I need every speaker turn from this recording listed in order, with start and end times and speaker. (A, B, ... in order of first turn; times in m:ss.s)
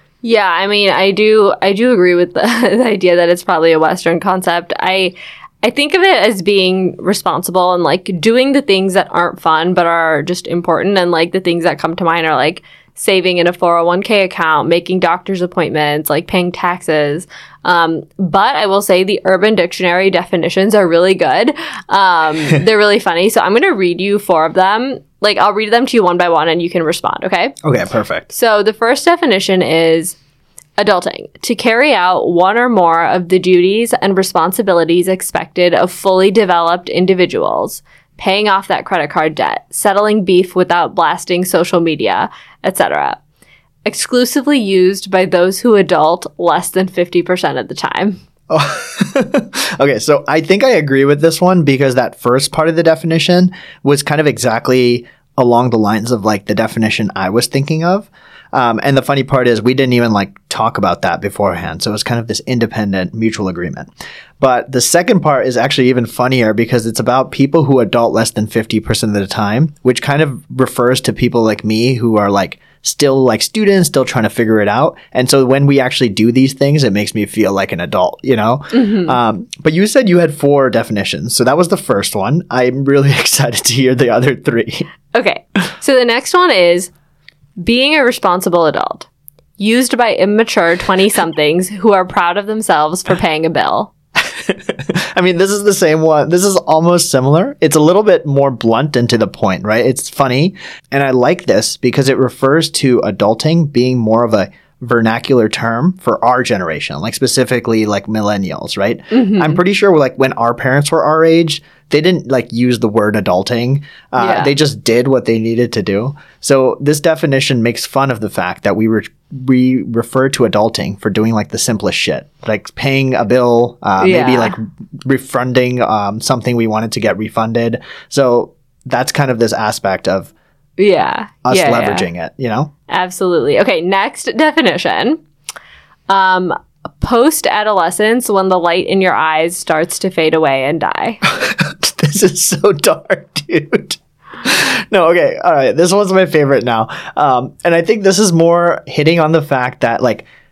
0:00.2-0:27.6 A
0:27.6-0:28.3 B
0:28.3-0:30.2 A
0:30.8-0:43.2 A
0:43.8-0:48.2 A
0:48.5-1:03.9 B
1:04.4-1:24.9 B
1:18.7-1:19.2 A
1:25.1-1:26.9 A
1:27.6-1:29.1 A
1:29.6-1:33.9 A
1:34.3-2:10.3 B
1:49.1-1:49.6 A
1:54.2-1:54.5 A
2:04.0-2:04.6 A
2:10.8-2:12.0 A
2:11.4-2:12.7 B
2:12.9-2:15.2 A
2:16.1-2:21.2 A
2:21.2-2:30.3 B